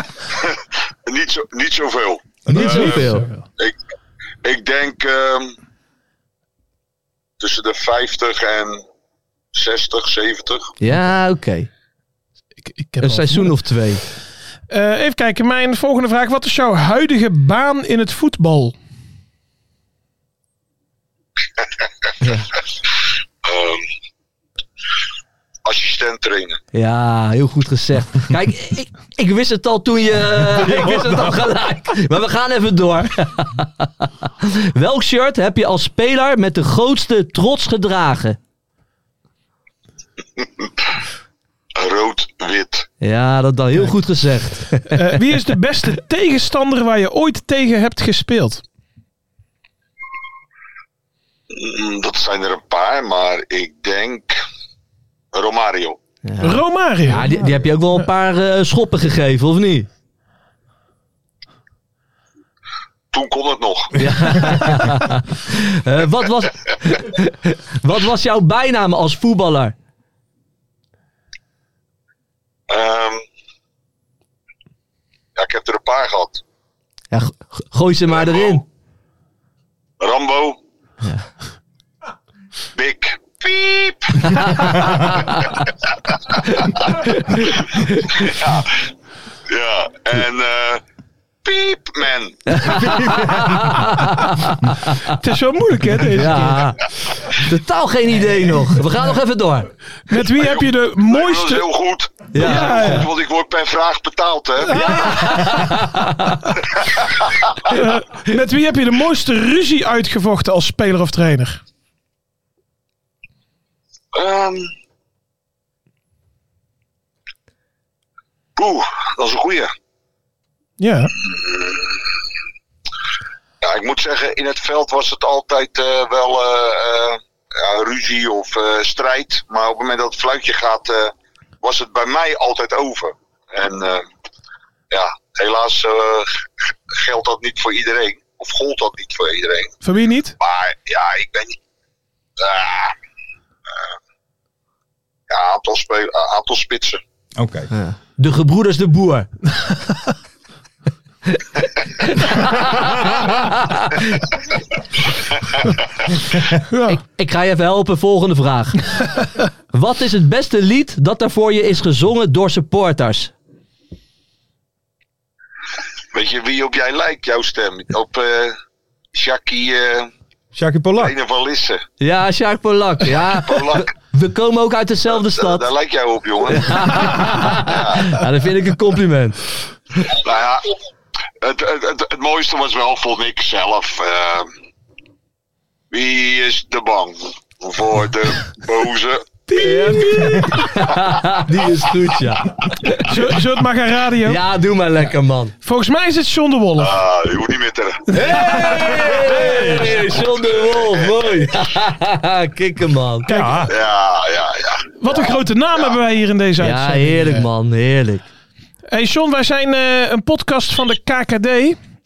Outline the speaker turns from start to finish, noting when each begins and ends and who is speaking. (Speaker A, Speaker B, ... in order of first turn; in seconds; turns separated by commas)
Speaker A: 0.4-2.9, Speaker B: 2.5-3.3, Speaker C: 2.5-3.4, Speaker A: 4.4-5.5, Speaker A: 7.4-8.8, Speaker A: 9.5-10.7, Speaker B: 10.8-11.7, Speaker C: 12.6-13.6, Speaker B: 13.0-14.0, Speaker C: 14.7-18.7, Speaker B: 22.2-22.5, Speaker A: 23.4-23.9, Speaker A: 25.6-26.6, Speaker B: 26.7-38.4, Speaker D: 30.5-31.5, Speaker A: 40.4-40.6, Speaker A: 41.8-42.9, Speaker B: 43.0-45.2, Speaker C: 44.9-48.6, Speaker A: 51.5-54.4, Speaker A: 55.3-56.0, Speaker B: 56.2-59.9, Speaker C: 56.4-57.3, Speaker A: 63.1-64.7, Speaker B: 63.9-69.7, Speaker A: 72.7-73.2, Speaker A: 75.3-76.4, Speaker B: 77.1-78.6, Speaker A: 78.1-78.6, Speaker A: 80.0-80.6, Speaker B: 81.0-81.3, Speaker A: 82.7-85.5, Speaker B: 86.4-88.3, Speaker A: 88.2-88.8, Speaker A: 89.5-90.8, Speaker A: 91.4-93.0, Speaker B: 92.5-95.0, Speaker D: 92.7-93.8, Speaker C: 95.0-96.7, Speaker B: 96.1-99.7, Speaker C: 100.1-101.7, Speaker A: 100.3-104.8, Speaker B: 102.3-103.1, Speaker C: 102.4-103.1, Speaker C: 104.6-105.8, Speaker B: 104.7-106.5, Speaker C: 107.7-111.6, Speaker A: 114.1-114.7, Speaker A: 118.6-119.7, Speaker C: 120.8-121.1, Speaker A: 121.2-122.0, Speaker A: 123.6-134.1, Speaker A: 134.9-139.8, Speaker C: 139.8-140.3, Speaker A: 140.4-141.6, Speaker A: 142.4-142.9, Speaker A: 145.3-147.0, Speaker D: 147.3-147.7, Speaker B: 147.7-149.3, Speaker B: 151.3-154.3, Speaker C: 156.7-157.0, Speaker B: 156.8-159.0, Speaker B: 159.7-163.3, Speaker A: 166.1-168.6, Speaker A: 169.1-170.1, Speaker D: 170.5-171.2, Speaker A: 171.0-171.8, Speaker B: 172.0-175.7, Speaker A: 173.1-173.9, Speaker A: 175.1-178.1, Speaker B: 176.5-179.4, Speaker A: 180.1-180.6, Speaker A: 181.4-184.5, Speaker A: 185.9-189.3, Speaker C: 189.5-190.6, Speaker B: 189.6-193.1, Speaker C: 193.0-194.4, Speaker B: 194.2-195.5, Speaker C: 195.6-196.9, Speaker A: 196.8-198.1, Speaker B: 198.1-203.3, Speaker C: 198.2-199.9, Speaker D: 199.2-199.7, Speaker A: 200.6-201.5, Speaker C: 203.2-203.7, Speaker D: 203.3-203.7, Speaker A: 203.7-205.9, Speaker C: 205.0-207.5, Speaker B: 206.6-208.2, Speaker C: 208.9-211.8